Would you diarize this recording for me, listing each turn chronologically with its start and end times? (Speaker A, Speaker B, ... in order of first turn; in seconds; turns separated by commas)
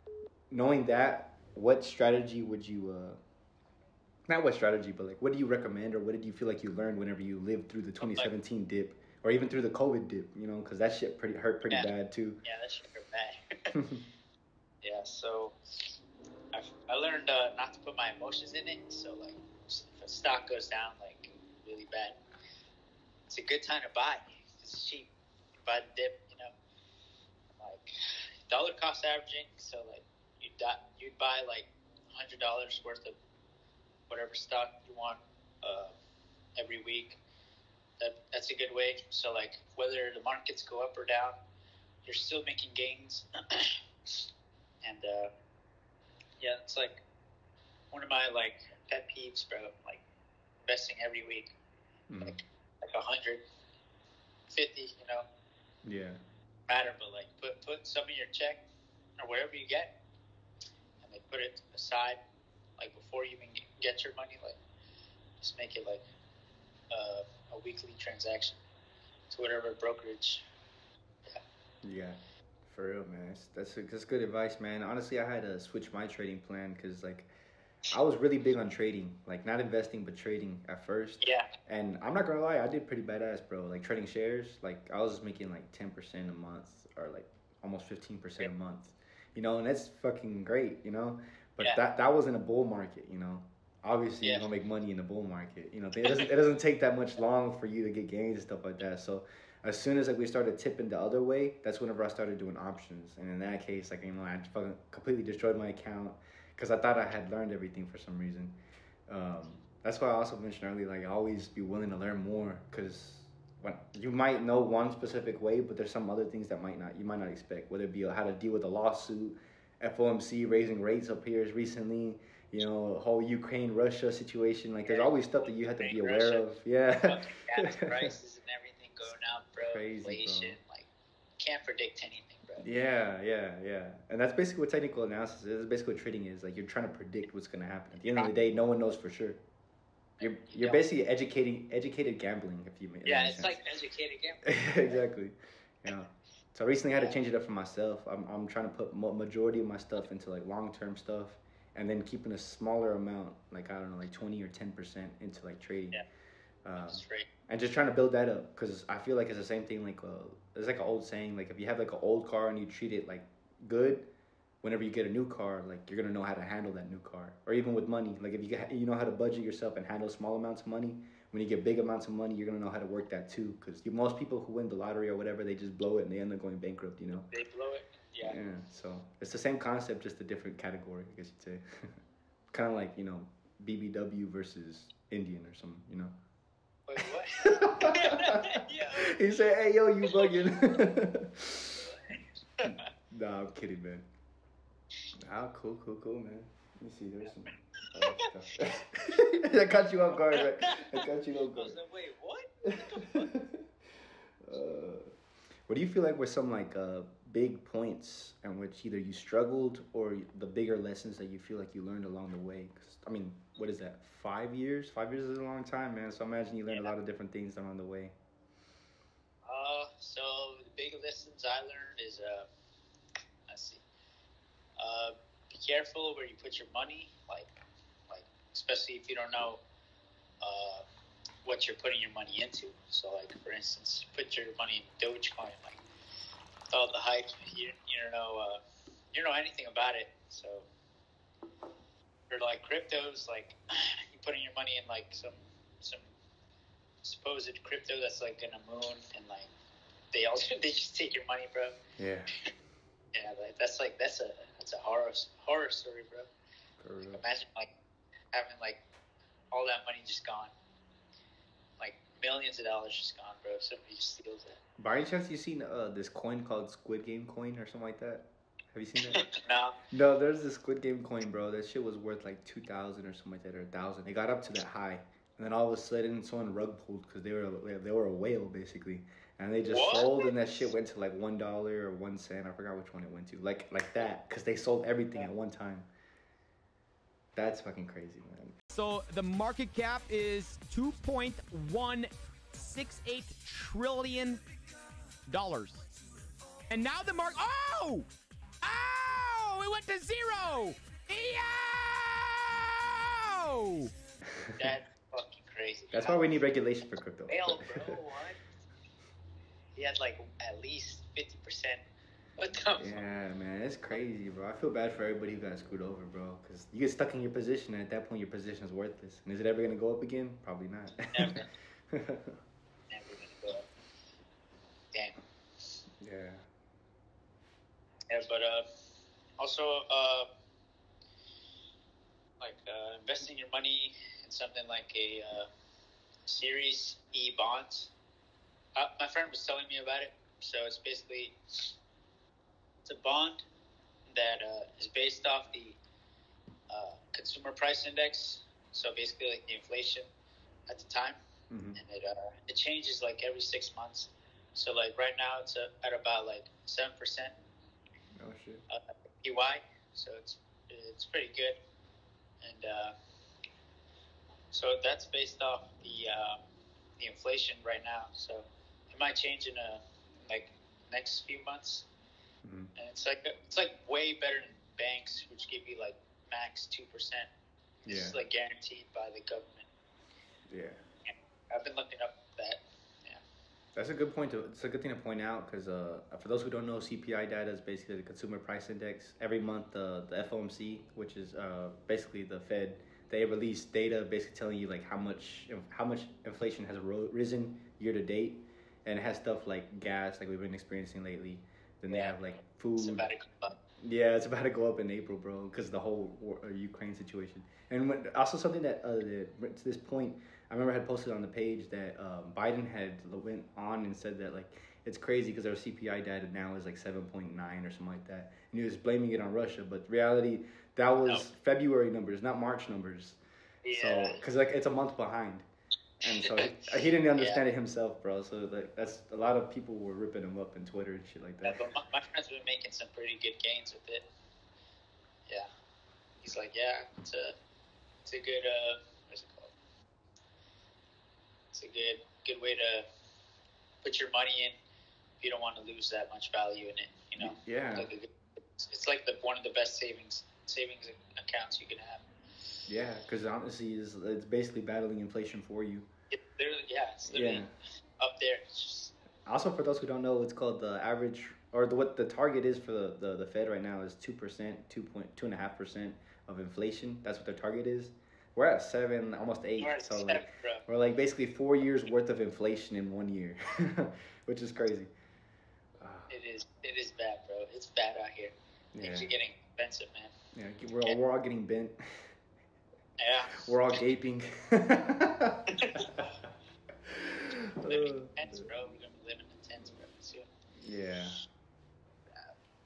Speaker A: 0.5-3.2, Speaker A: 4.3-12.4, Speaker B: 8.0-8.3, Speaker B: 12.4-13.7, Speaker A: 13.7-14.1, Speaker B: 14.8-16.0, Speaker B: 16.5-22.2, Speaker B: 23.3-25.1, Speaker B: 25.6-26.5, Speaker B: 27.6-33.2, Speaker B: 34.1-36.0, Speaker B: 36.6-37.2, Speaker B: 38.0-41.4, Speaker B: 42.0-44.3, Speaker B: 44.8-45.3, Speaker B: 46.4-47.0, Speaker B: 47.9-50.0, Speaker B: 50.6-51.5, Speaker A: 52.1-52.4, Speaker B: 52.2-53.4, Speaker B: 54.5-55.3, Speaker A: 55.9-56.2, Speaker B: 56.7-58.6, Speaker B: 59.2-59.9, Speaker B: 61.0-62.2, Speaker B: 62.8-64.6, Speaker B: 65.4-66.0, Speaker B: 66.9-68.6, Speaker B: 69.3-70.4, Speaker A: 71.8-77.3, Speaker A: 77.9-128.1, Speaker B: 81.2-81.5, Speaker B: 124.9-126.5, Speaker B: 127.0-130.9, Speaker A: 129.6-130.6, Speaker B: 131.4-132.7, Speaker A: 132.6-139.4, Speaker B: 140.2-140.8, Speaker A: 140.2-143.6, Speaker B: 143.1-145.0, Speaker A: 144.4-156.0, Speaker A: 156.6-164.1, Speaker B: 156.8-157.3, Speaker A: 164.6-177.3, Speaker B: 177.3-178.4, Speaker A: 178.2-182.0, Speaker A: 182.5-186.2, Speaker B: 186.9-189.2, Speaker A: 187.0-191.8, Speaker B: 190.1-190.8, Speaker B: 191.8-192.9, Speaker A: 192.7-194.1, Speaker A: 195.2-201.8, Speaker B: 200.1-203.3, Speaker A: 202.8-203.6, Speaker A: 204.4-205.1, Speaker A: 205.7-218.1, Speaker B: 219.4-222.5, Speaker B: 223.5-223.8, Speaker B: 224.8-227.5, Speaker B: 228.1-229.6, Speaker B: 230.4-230.8, Speaker B: 231.4-235.8, Speaker B: 236.7-238.6, Speaker B: 239.1-240.7, Speaker B: 242.3-246.1, Speaker B: 247.0-249.5, Speaker B: 250.1-251.8, Speaker A: 252.0-252.3, Speaker B: 253.1-256.3, Speaker A: 256.8-257.2, Speaker B: 257.1-257.7, Speaker B: 258.3-258.8, Speaker B: 259.5-260.5, Speaker B: 261.8-264.6, Speaker A: 264.8-269.2, Speaker B: 269.1-269.8, Speaker A: 269.9-285.9, Speaker B: 279.6-280.4, Speaker A: 287.4-288.6, Speaker C: 288.7-294.4, Speaker C: 295.3-295.9, Speaker C: 296.7-298.1, Speaker C: 298.6-303.9, Speaker A: 304.3-304.6, Speaker B: 304.6-306.3, Speaker A: 305.9-308.0, Speaker B: 307.3-308.4, Speaker B: 309.8-311.8, Speaker B: 312.4-313.0, Speaker A: 312.8-322.4, Speaker B: 321.1-321.5, Speaker B: 322.9-323.7, Speaker A: 326.0-326.5, Speaker B: 328.1-328.7, Speaker B: 329.4-330.3, Speaker B: 332.4-335.5, Speaker B: 336.3-337.9, Speaker B: 338.8-341.8, Speaker B: 342.9-343.4, Speaker B: 344.1-345.8, Speaker B: 346.7-350.1, Speaker B: 350.7-351.2, Speaker A: 351.5-351.8, Speaker B: 351.8-357.3, Speaker A: 358.2-358.6, Speaker B: 358.7-361.6, Speaker B: 362.4-362.9, Speaker B: 364.5-366.4, Speaker B: 367.0-371.9, Speaker A: 372.4-372.7, Speaker B: 372.8-377.3, Speaker B: 377.8-379.7, Speaker A: 377.9-378.2, Speaker A: 380.5-380.8, Speaker B: 381.1-383.2, Speaker A: 383.8-403.1, Speaker B: 401.9-402.2, Speaker B: 402.8-403.6, Speaker A: 403.8-423.2, Speaker B: 423.6-424.2, Speaker A: 423.7-425.4, Speaker A: 426.0-431.6, Speaker B: 426.0-427.4, Speaker B: 431.4-434.1, Speaker B: 436.2-437.4, Speaker B: 438.0-439.5, Speaker B: 441.5-442.9, Speaker B: 443.8-444.6, Speaker B: 445.2-452.1, Speaker A: 447.2-447.9, Speaker A: 452.7-455.9, Speaker B: 456.1-458.9, Speaker A: 457.1-457.5, Speaker A: 459.3-474.9, Speaker B: 469.6-470.6, Speaker A: 475.8-476.1, Speaker B: 476.1-480.1, Speaker A: 478.7-479.1, Speaker A: 480.3-482.1, Speaker B: 483.0-483.8, Speaker A: 483.3-486.2, Speaker B: 485.6-485.9, Speaker A: 486.9-488.5, Speaker B: 487.7-490.3, Speaker A: 490.6-491.3